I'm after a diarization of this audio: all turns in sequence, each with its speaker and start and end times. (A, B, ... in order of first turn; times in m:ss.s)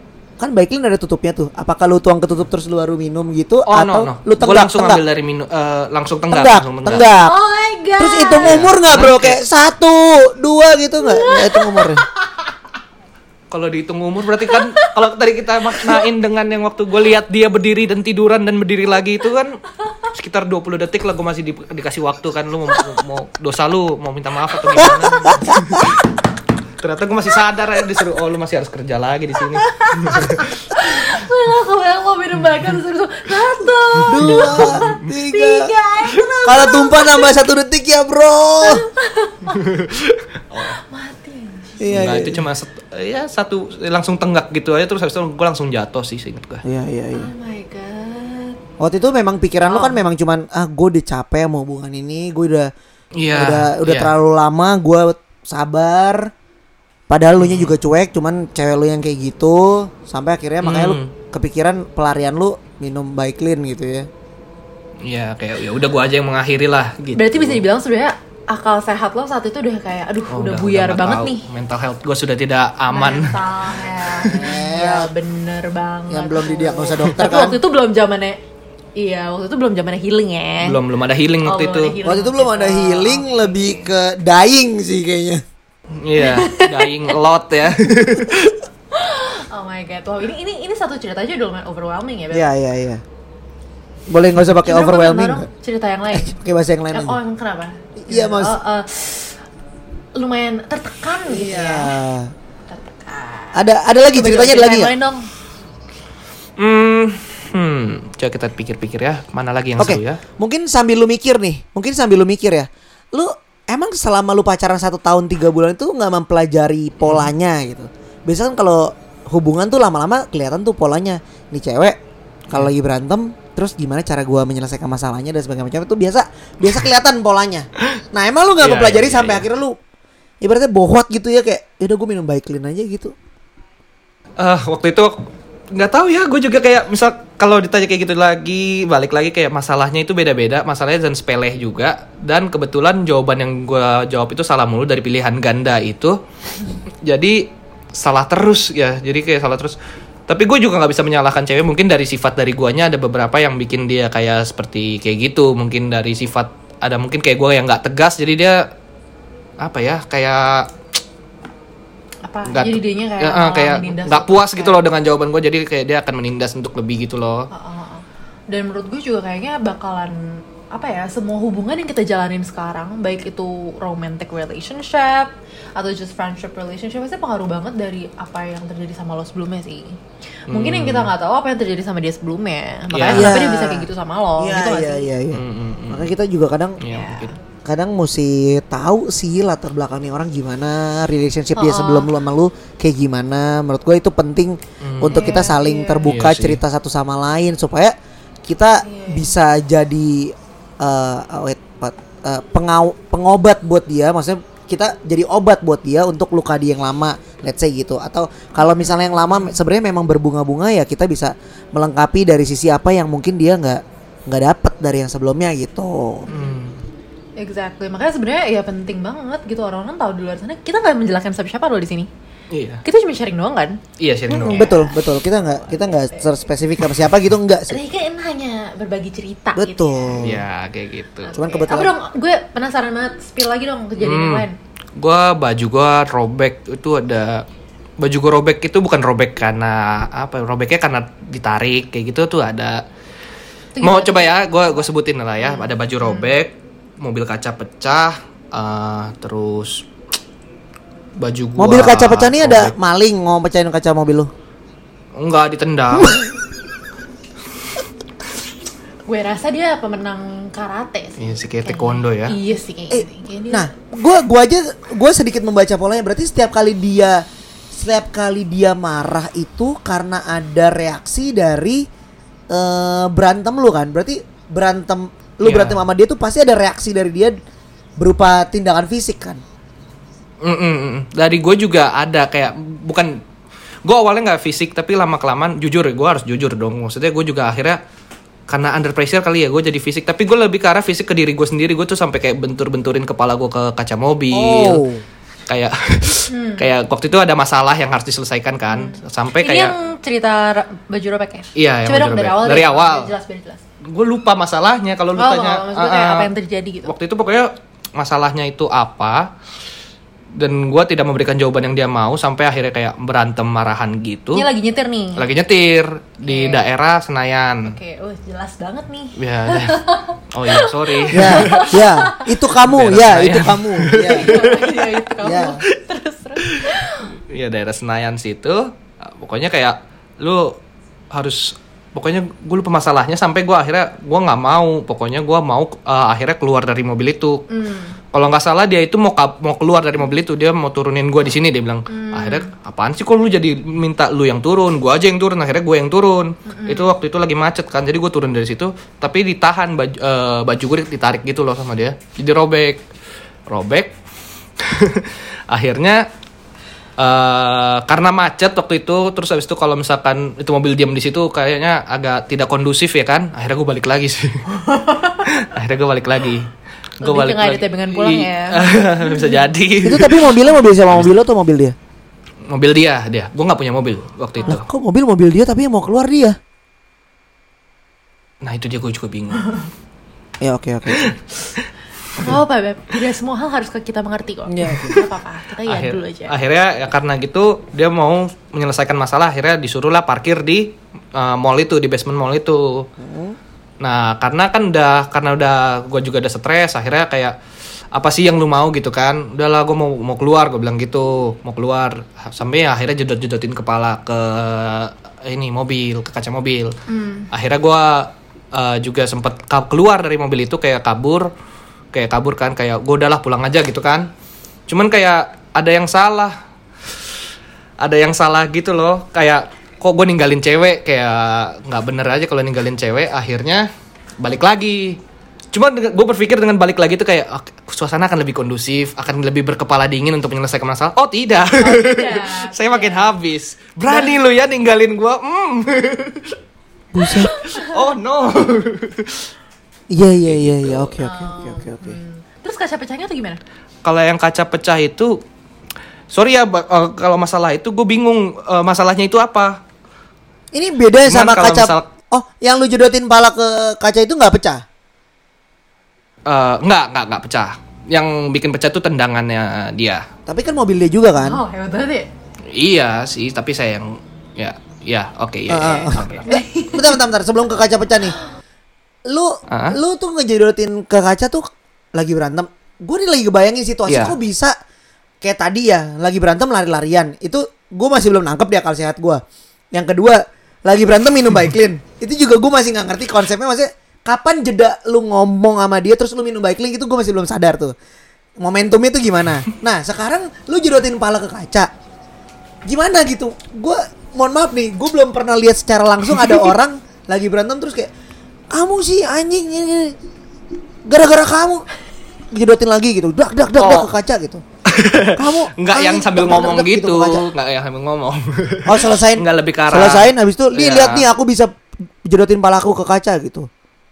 0:00.4-0:05.0 A
0:03.7-0:07.1 B
0:06.3-0:07.4 A
0:06.9-0:08.6 C
0:08.0-0:12.0 A
0:08.4-0:09.4 B
0:11.0-0:12.1 C
0:13.5-0:25.9 B
0:14.5-0:14.9 C
0:25.3-0:25.6 A
0:26.8-0:30.5 B
0:29.6-0:37.4 C
0:34.1-0:35.7 A
0:34.2-0:34.9 B
0:36.4-0:38.8 A
0:38.6-0:39.6 C
0:39.6-0:40.8 B
0:40.6-0:42.0 C
0:41.8-0:42.4 A
0:41.9-0:46.6 B
0:46.6-0:47.3 A
0:47.1-0:48.6 C
0:48.8-0:52.7 A
0:49.6-0:50.0 C
0:53.2-0:54.1 B
0:53.3-0:56.3 A
0:57.1-1:04.1 A
0:57.4-0:57.8 B
1:00.6-1:01.1 B
1:05.0-1:07.6 B
1:07.2-1:11.4 C
1:10.3-1:13.4 B
1:12.9-1:18.4 C
1:14.2-1:14.5 B
1:14.3-1:15.1 A
1:16.1-1:17.6 A
1:19.0-1:20.8 C
1:20.6-1:22.0 B
1:21.4-1:23.9 C
1:22.0-1:25.4 A
1:26.0-1:28.6 B
1:26.2-1:27.1 C
1:28.9-1:32.5 C
1:32.3-1:33.0 A
1:34.1-1:35.5 A
1:34.6-1:36.4 C
1:36.1-1:37.2 A
1:36.9-1:39.4 C
1:38.0-1:38.6 A
1:40.2-1:41.9 C
1:41.3-1:42.3 A
1:42.7-1:45.3 C
1:43.5-1:44.9 A
1:46.6-1:50.2 B
1:49.8-2:02.0 A
1:57.0-1:57.3 B
2:02.5-2:09.8 A
2:08.6-2:09.5 B
2:10.4-2:13.1 A
2:14.4-2:15.2 B
2:15.7-2:26.2 B
2:27.0-2:29.8 B
2:30.3-2:38.7 B
2:39.6-2:40.7 B
2:42.2-2:44.8 C
2:42.5-2:47.5 B
2:47.5-3:05.1 C
3:00.5-3:01.1 B
3:02.9-3:03.4 B
3:03.1-3:06.8 A
3:05.3-3:06.1 B
3:06.8-3:07.3 B
3:06.9-3:07.4 C
3:07.6-3:36.3 A
3:11.6-3:12.1 C
3:14.8-3:15.4 B
3:15.1-3:16.1 C
3:16.1-3:16.6 B
3:18.8-3:19.3 C
3:28.6-3:29.6 C
3:36.3-3:36.5 C
3:36.3-3:36.8 B
3:37.4-3:42.1 C
3:42.5-3:42.8 B
3:42.8-3:43.8 C
3:44.0-3:44.7 B
3:44.3-3:47.8 A
3:44.3-3:46.4 C
3:47.7-3:50.2 C
3:49.6-3:50.4 A
3:50.2-3:51.3 B
3:51.2-3:54.6 C
3:51.3-3:51.9 A
3:54.0-3:57.4 B
3:58.0-4:02.8 B
4:03.8-4:04.4 C
4:03.8-4:09.9 B
4:05.4-4:06.3 C
4:11.2-4:12.7 B
4:11.6-4:14.3 A
4:15.2-4:16.2 B
4:15.9-4:16.2 A
4:19.1-4:23.7 C
4:21.2-4:22.4 B
4:22.9-4:31.9 A
4:32.5-4:37.4 A
4:35.4-4:35.8 B
4:38.0-4:39.4 A
4:40.4-4:43.2 B
4:43.8-4:47.8 B
4:48.5-4:54.8 B
4:54.3-4:55.0 A
4:55.5-4:59.8 B
4:56.3-4:56.7 C
4:58.7-5:03.6 C
5:01.6-5:03.1 B
5:03.9-5:06.3 B
5:05.2-5:06.9 C
5:06.8-5:09.3 B
5:10.4-5:14.5 B
5:14.3-5:15.2 C
5:15.2-5:17.8 B
5:16.2-5:16.6 C
5:17.6-5:22.3 C
5:19.2-5:21.8 B
5:21.1-5:24.5 A
5:22.6-5:25.0 B
5:24.1-5:27.1 C
5:25.2-5:25.6 A
5:26.4-5:26.7 B
5:27.3-5:30.6 B
5:31.1-5:37.5 B
5:37.5-5:38.0 C
5:38.1-5:52.8 B
5:41.9-5:42.5 C
5:46.5-5:46.9 C
5:53.5-5:54.0 B
5:54.6-5:56.0 B
5:57.0-6:04.4 B
6:04.5-6:05.3 C
6:05.2-6:06.5 B
6:07.0-6:10.4 B
6:07.0-6:09.4 C
6:09.8-6:11.8 A
6:12.5-6:14.7 B
6:14.5-6:16.4 A
6:18.4-6:19.6 B
6:20.4-6:21.1 A
6:20.9-6:21.7 B
6:22.2-6:26.4 C
6:24.5-6:25.0 A
6:25.7-6:32.9 B
6:33.0-6:33.4 A
6:33.8-6:37.4 B
6:37.9-6:46.8 B
6:46.9-6:47.3 C
6:47.3-6:51.3 B
6:51.9-6:54.1 B
6:54.7-6:56.4 B
6:57.8-7:03.7 B
7:04.2-7:05.0 B
7:05.5-7:16.4 B
7:11.6-7:13.2 C
7:13.9-7:14.2 C
7:16.9-7:17.3 A
7:17.2-7:19.3 B
7:17.2-7:17.7 C
7:19.9-7:22.0 A
7:20.2-7:21.0 B
7:21.0-7:23.4 C
7:23.8-7:25.2 B
7:26.1-7:29.6 B
7:30.5-7:34.6 A
7:31.1-7:31.9 B
7:36.3-7:40.1 B
7:40.3-7:41.4 A
7:41.2-7:42.1 C
7:42.5-7:46.3 B
7:45.5-7:48.2 A
7:45.6-7:47.0 C
7:49.1-7:51.4 A
7:49.5-7:49.8 B
7:52.0-7:54.6 A
7:53.9-7:54.2 B
7:55.2-7:59.2 A
7:59.7-8:07.7 A
8:08.4-8:11.7 A
8:12.7-8:17.9 A
8:18.5-8:20.0 A
8:20.8-8:21.6 A
8:22.3-8:24.4 A
8:23.6-8:23.9 B
8:24.7-8:31.1 B
8:25.2-8:27.3 A
8:28.7-8:31.5 A
8:32.0-8:33.5 A